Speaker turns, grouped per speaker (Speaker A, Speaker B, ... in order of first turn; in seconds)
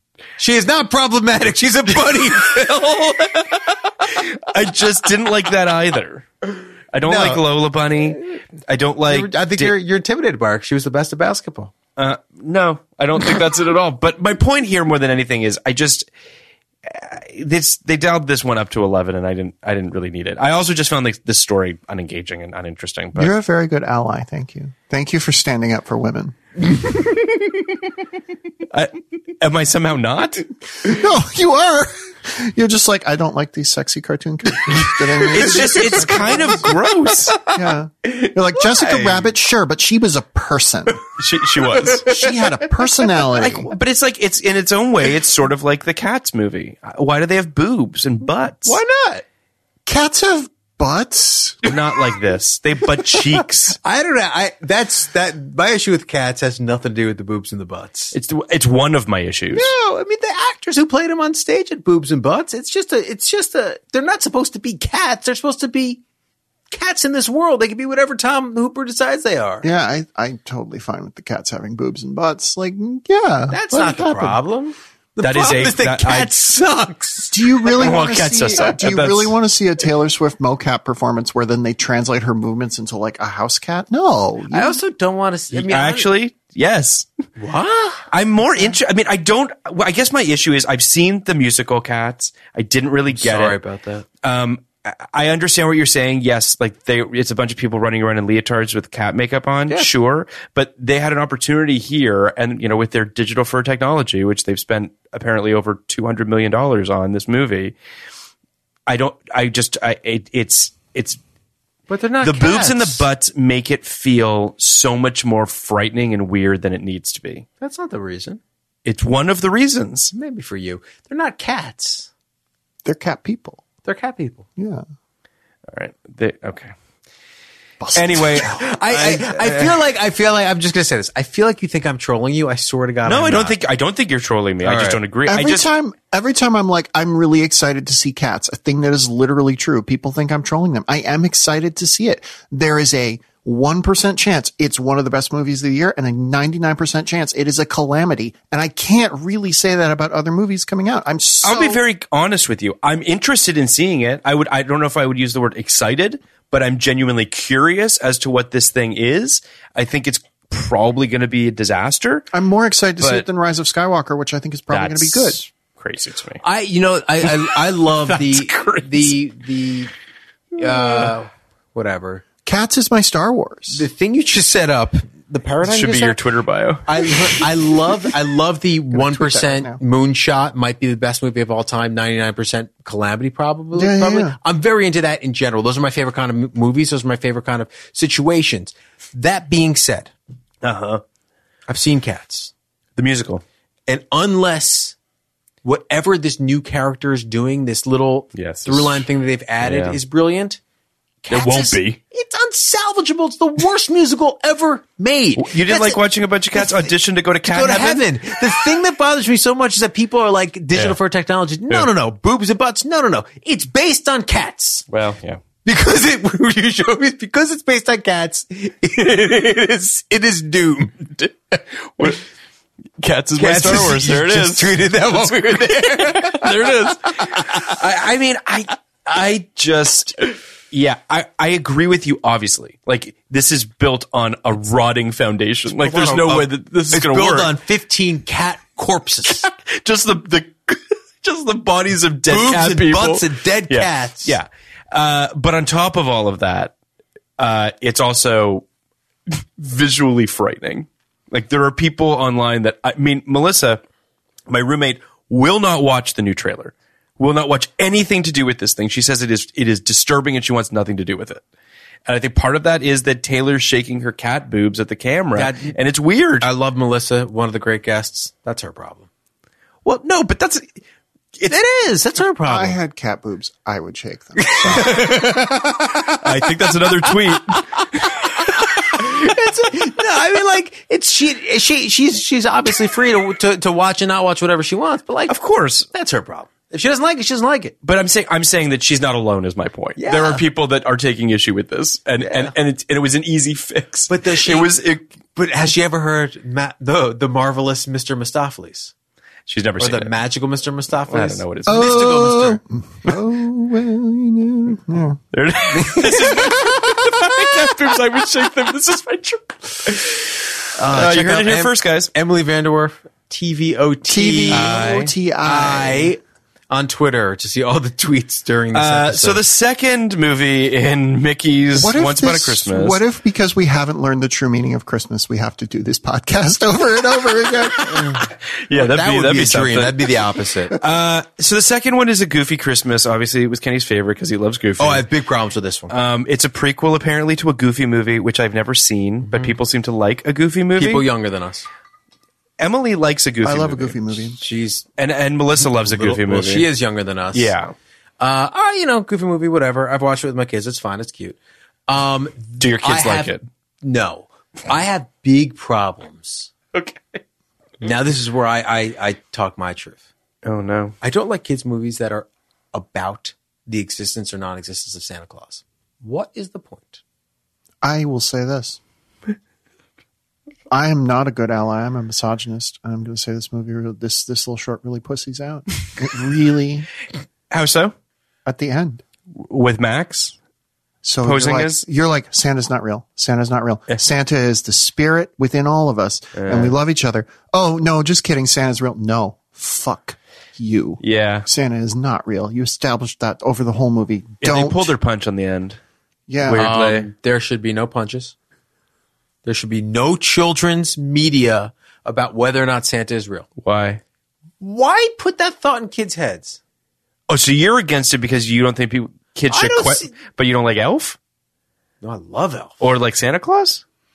Speaker A: 0.4-3.1, 7.0-7.4, 9.1-11.7, 35.3-36.8, 38.8-39.1, 41.8-42.2, 48.6-49.2, 53.8-58.1, 59.5-66.0, 66.7-69.7, 73.5-77.4, 84.5-86.1, 87.4-88.1, 93.1-94.1, 111.9-113.1, 117.6-118.4, 120.1-122.1, 123.8-124.5, 128.5-133.6, 134.6-135.0, 166.4-169.9, 170.6-172.2, 173.7-176.2, 176.9-190.1, 191.7-192.5, 193.9-194.9, 195.6-200.6, 201.2-206.0, 206.6-206.9, 207.5-214.9, 215.7-221.3, 223.4-227.7, 235.7-239.5, 242.3-244.4, 265.4-265.7, 266.4-269.1, 271.4-272.8, 274.4-276.2, 278.5-285.4, 285.9-287.7, 290.0-290.4, 292.2-292.5, 294.1-294.7, 295.4-298.9, 299.8-302.6, 310.8-314.8, 315.4-319.4, 328.7-330.8, 334.8-335.9, 339.2-339.6, 340.8-341.7, 344.4-344.9, 345.6-347.5, 348.2-356.5, 357.8-360.0, 361.0-367.0, 396.5-398.3, 399.4-403.5, 404.6-406.6, 409.5-410.1, 412.0-412.8
Speaker B: 2.5-6.3, 6.9-9.8, 12.0-16.1, 16.9-23.3, 28.7-30.5, 35.3-37.4, 41.2-42.1, 43.4-48.8, 51.6-53.8, 58.1-59.7, 75.2-76.3, 77.8-79.3, 85.5-87.1, 88.1-93.6, 94.2-107.8, 108.9-111.2, 112.2-117.5, 118.8-120.1, 125.7-126.7, 127.9-129.8, 133.1-135.7, 151.4-162.3, 163.0-163.3, 164.7-166.4, 167.2-167.5, 168.1-169.1, 175.6-177.6, 190.6-191.0, 193.0-193.4, 198.3-199.1, 199.6-200.0, 201.3-202.0, 205.4-208.1, 214.9-215.4, 223.0-237.6, 239.3-246.7, 247.4-248.7, 249.3-253.8, 254.5-261.4, 262.1-266.5, 269.9-270.8, 274.8-275.1, 276.1-278.6, 285.3-285.9, 287.8-295.1, 299.5-300.2, 301.1-302.3, 305.3-312.1, 314.5-315.1, 318.7-323.0, 328.7-330.2, 330.8-335.1, 335.9-341.1, 342.6-344.2, 345.0-346.7, 347.3-347.7, 352.6-353.4, 356.7-357.2, 360.4-361.0, 377.5-377.9, 379.4-380.4, 381.2-381.8, 386.4-386.8, 391.0-391.5, 394.4-395.8, 396.4-397.1, 403.6-404.0, 407.3-411.2, 412.8-413.8
Speaker C: 23.2-26.4, 30.8-36.7, 37.5-41.0, 42.0-43.7, 49.9-51.6, 69.6-74.4, 77.3-84.8, 122.8-123.6, 124.6-124.8, 127.8-128.6, 135.3-151.8, 162.3-165.4, 172.4-173.8, 178.9-179.8, 183.7-184.4, 272.5-275.1, 301.7-305.2, 314.1-316.1, 321.8-328.2, 343.4-344.4, 367.8-368.8, 370.7-376.9, 378.5-379.0, 381.0-394.9, 396.3-396.7